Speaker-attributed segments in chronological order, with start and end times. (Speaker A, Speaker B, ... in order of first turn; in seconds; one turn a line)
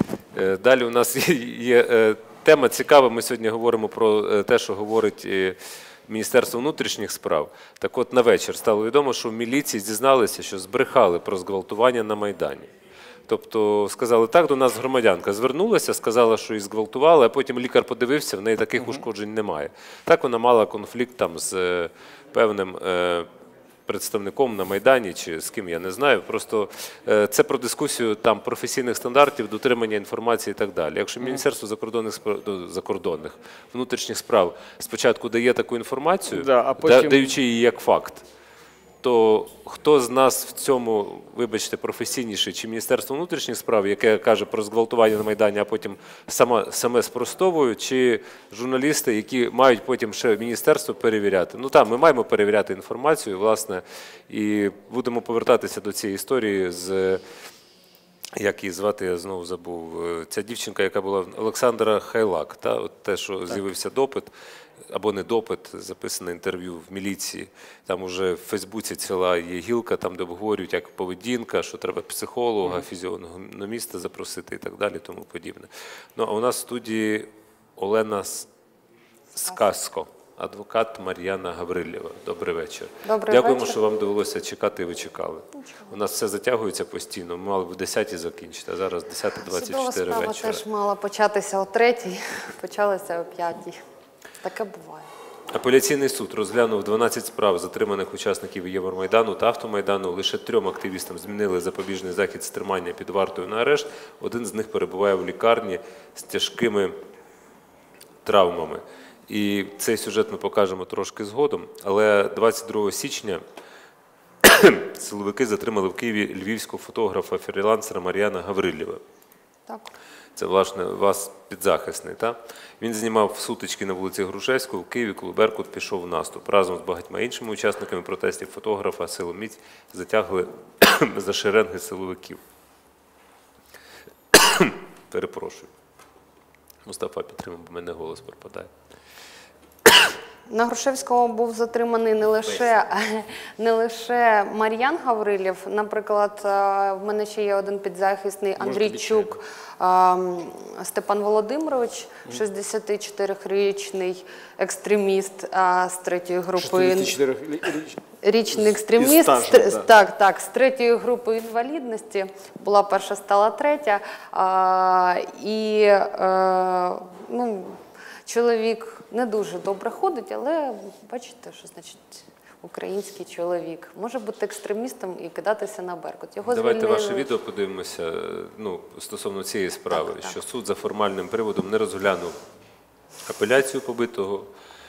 Speaker A: 0.3-5.5
Speaker A: 6.1-12.7
Speaker A: 13.3-23.3
Speaker A: 23.9-38.2
Speaker B: 36.3-37.3
Speaker A: 39.0-57.2
Speaker A: 58.4-64.3
Speaker A: 64.9-78.5
Speaker A: 79.3-90.6
Speaker C: 83.0-83.8
Speaker C: 85.5-86.0
Speaker C: 89.4-93.8
Speaker C: 94.4-95.1
Speaker A: 95.5-106.9
Speaker A: 108.2-113.4
Speaker A: 114.4-119.0
Speaker C: 119.7-119.9
Speaker A: 120.3-132.4
Speaker A: 134.3-135.7
Speaker A: 136.8-138.7
Speaker C: 140.5-157.2
Speaker B: 148.6-149.4
Speaker B: 156.5-158.0
Speaker C: 158.2-177.3
Speaker B: 158.5-159.9
Speaker A: 176.4-182.3
Speaker C: 179.9-180.4
Speaker A: 183.3-184.5